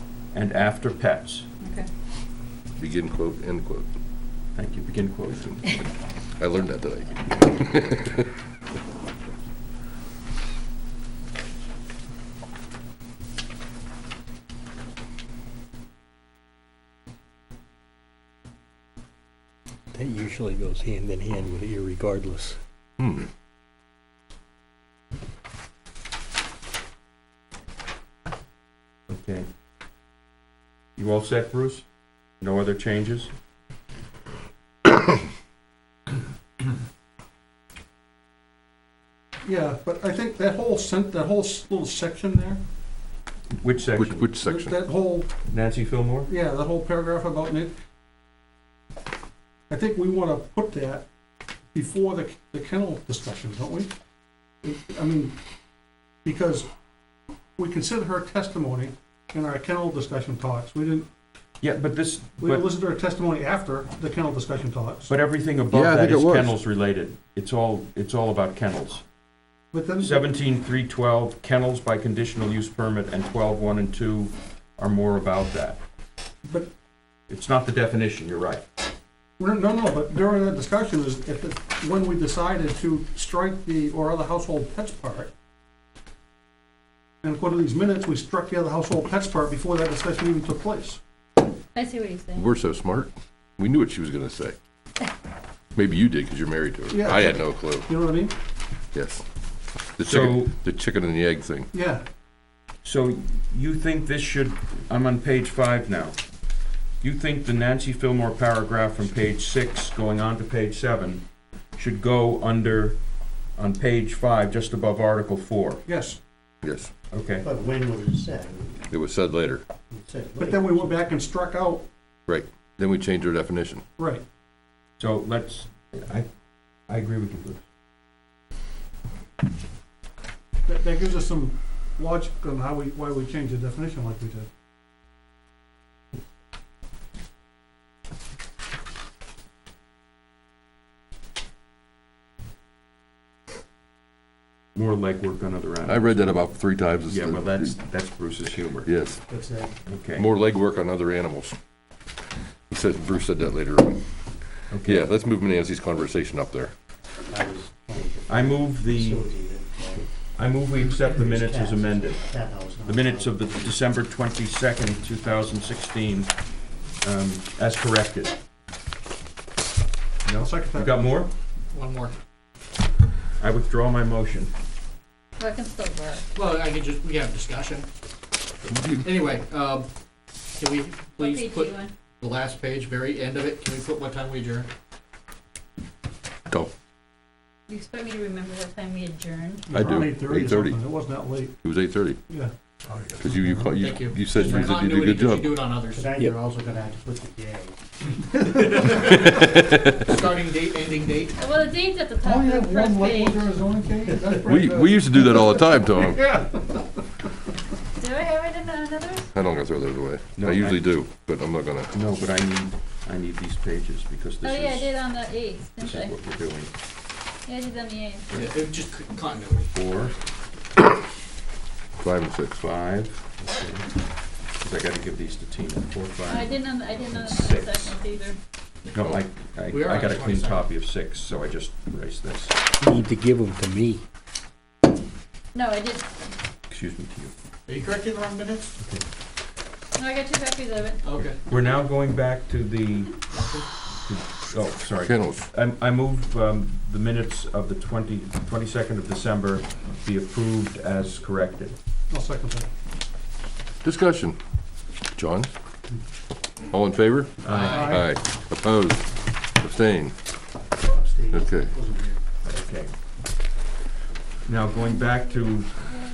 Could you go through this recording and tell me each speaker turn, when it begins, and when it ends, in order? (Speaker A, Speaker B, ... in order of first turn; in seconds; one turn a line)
Speaker A: 0.3-1.5
Speaker B: 1.6-1.9
Speaker C: 2.8-3.9
Speaker A: 4.5-5.8
Speaker C: 6.4-8.3
Speaker D: 19.9-22.6
Speaker C: 23.0-23.3
Speaker A: 29.1-29.5
Speaker A: 31.0-31.8
Speaker A: 32.4-33.3
Speaker E: 39.4-42.6
Speaker A: 43.6-44.3
Speaker C: 44.0-44.8
Speaker E: 44.5-45.3
Speaker A: 45.5-46.3
Speaker E: 46.3-47.7
Speaker E: 49.7-51.0
Speaker E: 51.7-53.9
Speaker E: 54.6-55.3
Speaker E: 56.2-56.6
Speaker E: 57.6-61.1
Speaker A: 61.6-62.7
Speaker E: 62.4-65.1
Speaker A: 65.1-69.0
Speaker C: 65.7-66.6
Speaker E: 69.7-70.2
Speaker A: 70.0-75.8
Speaker E: 76.4-76.7
Speaker A: 77.3-78.6
Speaker E: 79.4-85.3
Speaker E: 87.2-91.0
Speaker B: 91.7-92.5
Speaker C: 92.3-94.5
Speaker C: 95.7-97.9
Speaker E: 96.9-98.3
Speaker C: 98.9-99.2
Speaker C: 100.0-101.7
Speaker A: 100.0-100.5
Speaker E: 101.7-102.0
Speaker A: 102.8-106.2
Speaker A: 107.0-111.2
Speaker A: 111.8-113.0
Speaker A: 113.5-115.8
Speaker E: 115.8-116.2
Speaker C: 116.6-116.9
Speaker A: 117.1-117.5
Speaker F: 117.4-118.9
Speaker C: 118.9-119.6
Speaker F: 119.9-121.0
Speaker E: 120.4-121.9
Speaker C: 122.3-123.8
Speaker E: 124.0-124.2
Speaker A: 125.0-126.3
Speaker A: 126.9-127.6
Speaker E: 130.7-134.5
Speaker A: 144.7-146.4
Speaker C: 145.8-147.8
Speaker A: 147.1-148.9
Speaker C: 148.8-149.2
Speaker F: 149.3-149.7
Speaker A: 149.8-150.3
Speaker C: 150.2-151.6
Speaker C: 152.7-154.0
Speaker A: 154.7-155.1
Speaker C: 154.8-156.7
Speaker F: 157.3-160.1
Speaker A: 158.3-159.3
Speaker A: 160.3-162.3
Speaker F: 161.0-163.7
Speaker A: 162.8-166.3
Speaker A: 167.0-168.4
Speaker A: 170.2-171.3
Speaker E: 170.4-171.1
Speaker G: 171.7-172.1
Speaker A: 173.4-174.5
Speaker B: 175.4-176.2
Speaker G: 176.3-177.9
Speaker C: 178.7-179.1
Speaker G: 179.0-179.9
Speaker G: 180.6-184.7
Speaker B: 181.2-181.9
Speaker B: 187.7-189.8
Speaker E: 189.7-191.5
Speaker C: 189.7-190.9
Speaker C: 191.6-192.2
Speaker C: 193.2-195.7
Speaker E: 193.3-193.7
Speaker G: 193.8-196.1
Speaker F: 194.4-194.6
Speaker F: 195.9-197.7
Speaker G: 198.7-199.3
Speaker C: 199.4-200.0
Speaker G: 200.0-201.4
Speaker B: 201.4-203.4
Speaker E: 202.2-206.8
Speaker F: 204.1-204.6
Speaker C: 204.4-206.4
Speaker B: 208.0-209.3
Speaker C: 209.3-211.9
Speaker A: 210.4-210.8
Speaker A: 211.9-214.9
Speaker B: 214.4-216.1
Speaker A: 215.8-216.7
Speaker B: 217.4-218.3
Speaker G: 218.3-219.7
Speaker A: 219.7-220.1
Speaker C: 222.0-222.7
Speaker A: 222.6-223.8
Speaker A: 224.6-227.9
Speaker B: 226.3-228.4
Speaker A: 228.9-232.6
Speaker G: 229.7-230.7
Speaker D: 232.8-234.0
Speaker B: 235.5-236.1
Speaker A: 236.7-237.3
Speaker G: 237.7-238.6
Speaker A: 238.8-239.0
Speaker B: 239.9-241.0
Speaker G: 241.0-241.4
Speaker A: 241.4-243.2
Speaker G: 243.3-243.7
Speaker A: 244.0-251.8
Speaker C: 245.1-245.4
Speaker E: 252.1-252.7
Speaker C: 253.8-254.4
Speaker C: 255.1-255.5
Speaker C: 256.7-260.1
Speaker A: 257.4-257.9
Speaker G: 257.5-258.0
Speaker E: 257.7-258.0
Speaker F: 260.9-262.2
Speaker C: 261.3-261.7
Speaker A: 262.4-262.9
Speaker A: 264.4-265.9